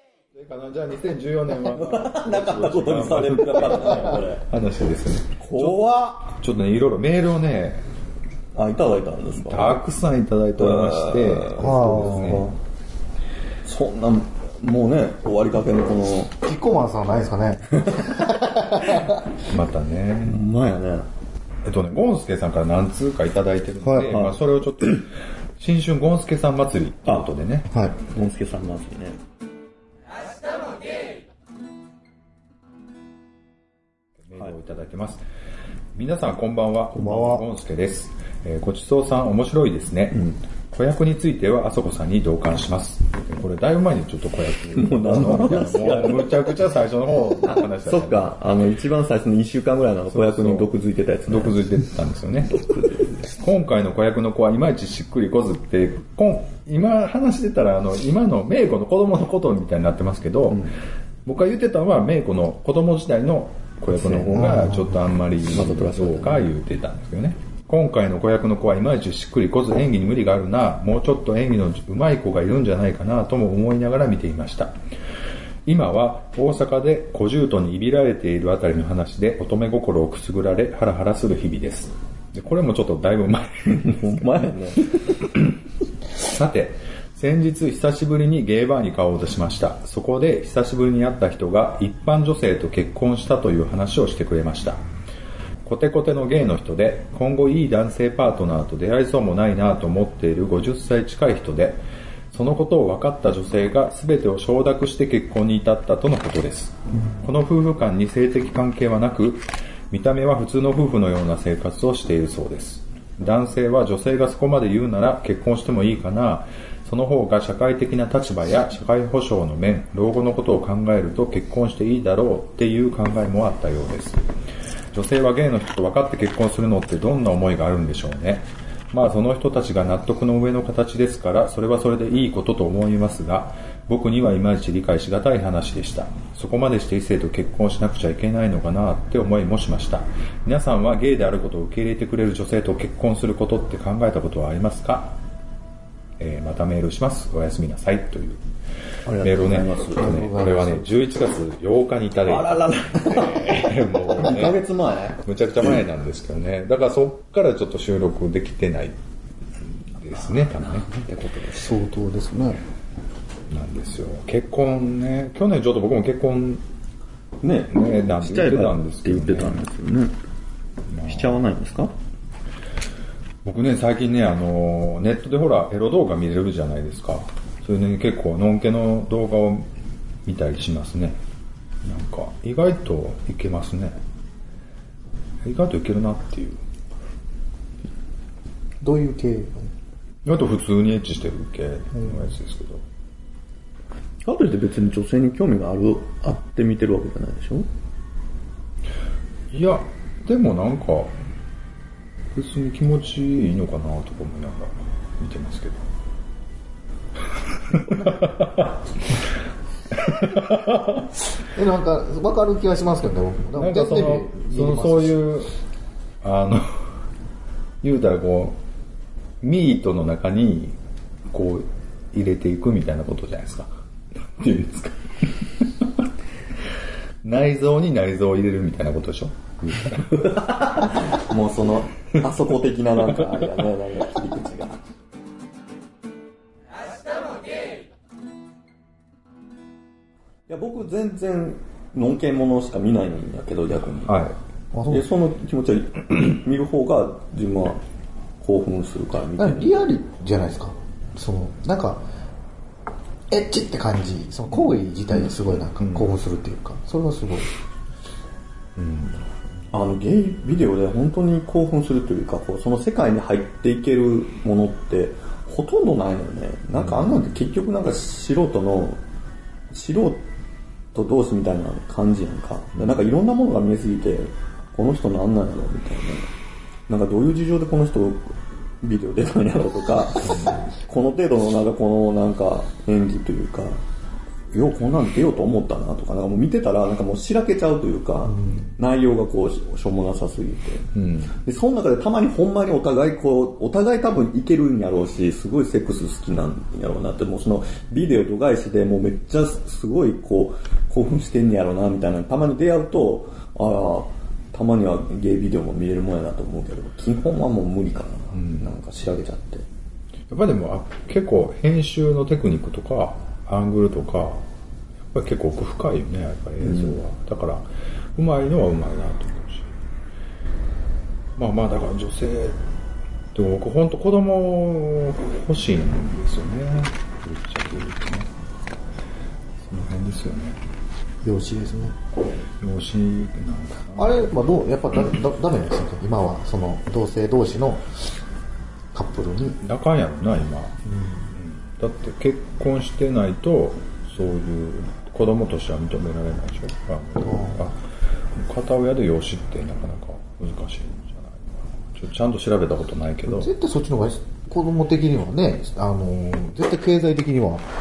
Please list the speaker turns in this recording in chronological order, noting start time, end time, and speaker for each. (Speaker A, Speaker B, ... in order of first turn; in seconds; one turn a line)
Speaker A: 0.3-7.8
Speaker B: 1.8-4.4
Speaker B: 5.4-6.3
Speaker B: 8.5-9.8
Speaker A: 9.4-12.5
Speaker B: 10.6-12.6
Speaker C: 11.5-12.4
Speaker B: 13.6-16.3
Speaker C: 16.4-19.2
Speaker A: 19.4-20.4
Speaker B: 20.2-21.1
Speaker A: 21.6-27.7
Speaker C: 23.8-24.2
Speaker B: 24.1-24.4
Speaker C: 27.7-27.9
Speaker B: 28.0-29.2
Speaker A: 34.2-35.2
Speaker A: 35.9-48.3
Speaker C: 36.9-37.4
Speaker B: 44.7-46.5
Speaker B: 47.5-51.8
Speaker A: 50.1-50.7
Speaker A: 51.3-52.6
Speaker B: 52.5-53.3
Speaker A: 53.3-60.7
Speaker A: 61.2-74.8
Speaker B: 64.0-64.6
Speaker C: 64.1-65.0
Speaker B: 65.4-66.5
Speaker A: 75.7-84.3
Speaker B: 83.7-85.2
Speaker A: 86.2-94.8
Speaker A: 95.6-124.3
Speaker A: 124.9-145.2
Speaker A: 146.2-148.4
Speaker B: 149.1-150.3
Speaker A: 149.2-154.6
Speaker C: 150.0-150.9
Speaker B: 152.2-155.2
Speaker A: 155.2-159.0
Speaker A: 159.6-160.9
Speaker B: 160.3-161.8
Speaker C: 161.6-162.6
Speaker A: 163.5-166.6
Speaker B: 167.4-170.2
Speaker A: 167.7-169.6
Speaker A: 170.9-171.4
Speaker B: 171.0-171.9
Speaker A: 173.4-179.7
Speaker A: 180.2-181.2
Speaker A: 181.8-184.0
Speaker A: 185.4-186.6
Speaker C: 188.8-189.7
Speaker A: 190.2-192.8
Speaker B: 194.2-197.7
Speaker A: 199.5-201.2
Speaker A: 202.3-205.8
Speaker A: 207.7-208.8
Speaker A: 210.0-211.0
Speaker C: 211.5-215.2
Speaker A: 213.5-215.5
Speaker A: 216.2-216.9
Speaker A: 217.8-218.6
Speaker A: 219.4-220.8
Speaker A: 221.3-225.7
Speaker A: 227.2-230.6
Speaker B: 230.8-234.8
Speaker B: 240.5-244.2
Speaker A: 244.1-244.4
Speaker C: 244.7-245.1
Speaker B: 244.9-247.8
Speaker B: 248.4-249.8
Speaker C: 249.4-252.0
Speaker C: 253.3-257.5
Speaker A: 255.8-256.1
Speaker A: 258.8-259.2
Speaker B: 259.7-269.0
Speaker A: 266.8-267.2
Speaker B: 269.7-270.2
Speaker B: 270.9-276.3
Speaker B: 276.9-283.8
Speaker A: 280.3-280.6
Speaker B: 284.5-309.6
Speaker A: 290.9-291.3
Speaker A: 308.3-308.7
Speaker A: 310.3-314.4
Speaker A: 315.1-319.8
Speaker B: 316.6-317.0
Speaker A: 321.4-322.6
Speaker A: 323.3-328.3
Speaker A: 329.6-330.6
Speaker C: 331.2-331.9
Speaker A: 332.6-334.4
Speaker C: 333.9-338.0
Speaker C: 338.9-339.6
Speaker A: 339.6-340.8
Speaker C: 340.9-341.3
Speaker A: 341.3-347.8
Speaker C: 347.2-347.6
Speaker A: 348.3-353.5
Speaker C: 353.3-357.7